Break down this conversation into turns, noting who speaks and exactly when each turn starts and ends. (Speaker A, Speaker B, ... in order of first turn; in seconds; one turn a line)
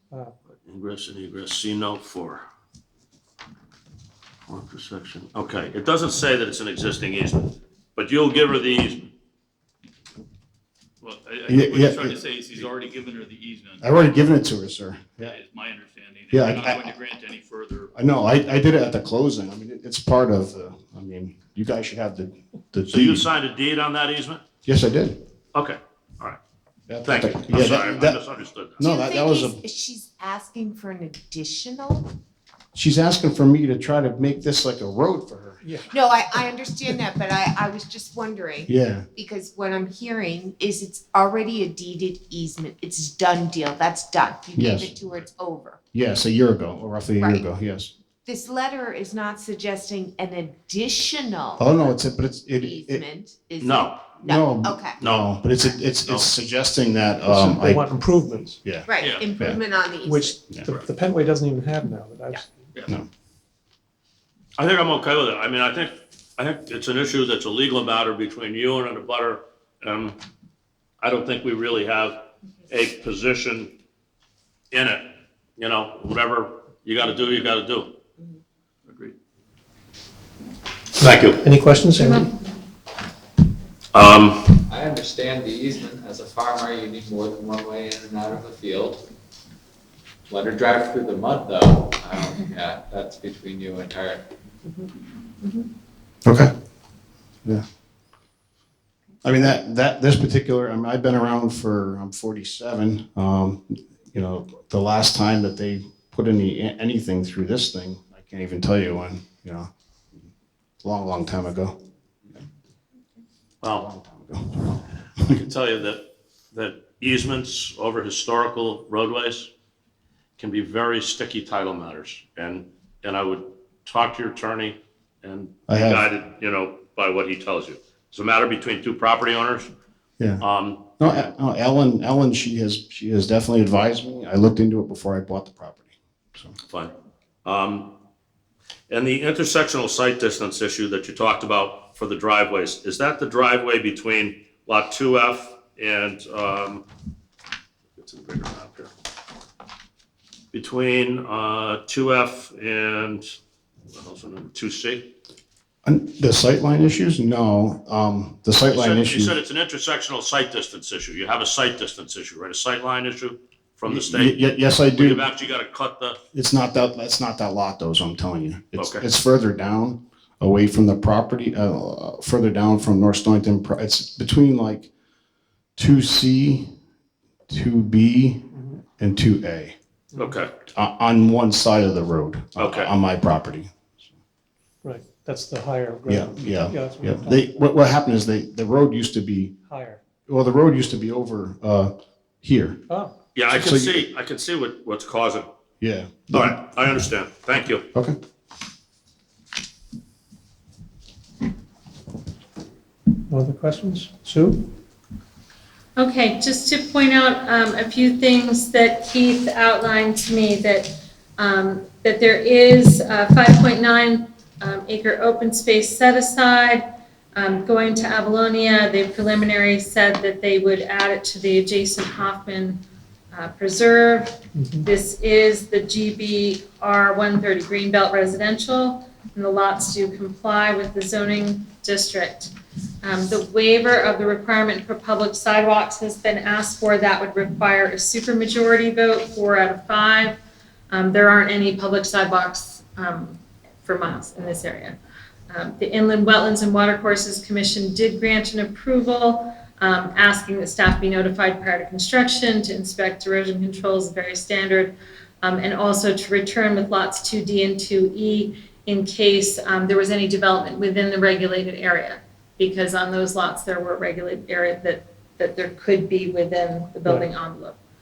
Speaker A: 0.6-2.4
Speaker A: 4.5-9.0
Speaker B: 11.0-14.3
Speaker C: 11.5-12.2
Speaker C: 13.8-15.4
Speaker B: 15.2-17.9
Speaker C: 16.3-16.9
Speaker C: 17.9-23.3
Speaker A: 22.9-24.4
Speaker C: 24.6-25.2
Speaker A: 25.5-26.4
Speaker C: 26.9-29.6
Speaker A: 27.0-28.8
Speaker D: 28.8-32.1
Speaker C: 32.7-35.6
Speaker E: 35.6-35.9
Speaker D: 35.9-45.8
Speaker C: 38.6-39.1
Speaker C: 44.5-45.1
Speaker C: 45.9-47.9
Speaker D: 47.2-47.5
Speaker D: 48.2-55.0
Speaker C: 51.6-53.0
Speaker A: 53.6-54.0
Speaker C: 54.2-59.6
Speaker A: 55.0-55.3
Speaker A: 56.0-56.3
Speaker E: 57.2-58.7
Speaker D: 58.8-60.4
Speaker E: 60.0-62.7
Speaker A: 64.6-70.2
Speaker A: 71.0-73.7
Speaker A: 74.7-77.9
Speaker B: 78.8-79.1
Speaker A: 81.0-81.4
Speaker E: 81.4-82.3
Speaker A: 83.9-84.5
Speaker F: 84.7-89.0
Speaker F: 90.3-94.2
Speaker C: 96.2-96.5
Speaker C: 99.2-109.7
Speaker C: 110.8-111.7
Speaker A: 113.6-113.9
Speaker C: 113.7-115.4
Speaker A: 115.3-119.5
Speaker A: 120.4-129.7
Speaker C: 125.7-126.1
Speaker C: 130.2-130.4
Speaker A: 130.4-131.2
Speaker C: 131.0-136.5
Speaker A: 136.7-136.9
Speaker A: 137.4-137.9
Speaker A: 138.9-146.8
Speaker A: 148.0-148.9
Speaker A: 150.5-153.2
Speaker A: 153.9-155.1
Speaker C: 155.8-159.4
Speaker A: 158.7-166.2
Speaker C: 163.8-165.3
Speaker C: 166.3-174.9
Speaker A: 168.8-169.0
Speaker C: 175.8-176.7
Speaker C: 177.5-179.8
Speaker A: 180.1-180.5
Speaker C: 180.7-183.7
Speaker A: 182.6-182.9
Speaker E: 184.8-187.5
Speaker C: 186.1-189.5
Speaker E: 189.7-190.0
Speaker C: 190.3-192.8
Speaker A: 193.3-195.5
Speaker C: 193.5-194.0
Speaker C: 195.8-196.6
Speaker A: 196.3-197.9
Speaker E: 203.3-204.7
Speaker G: 206.0-240.4
Speaker E: 224.6-224.9
Speaker G: 240.9-245.0
Speaker G: 245.5-267.8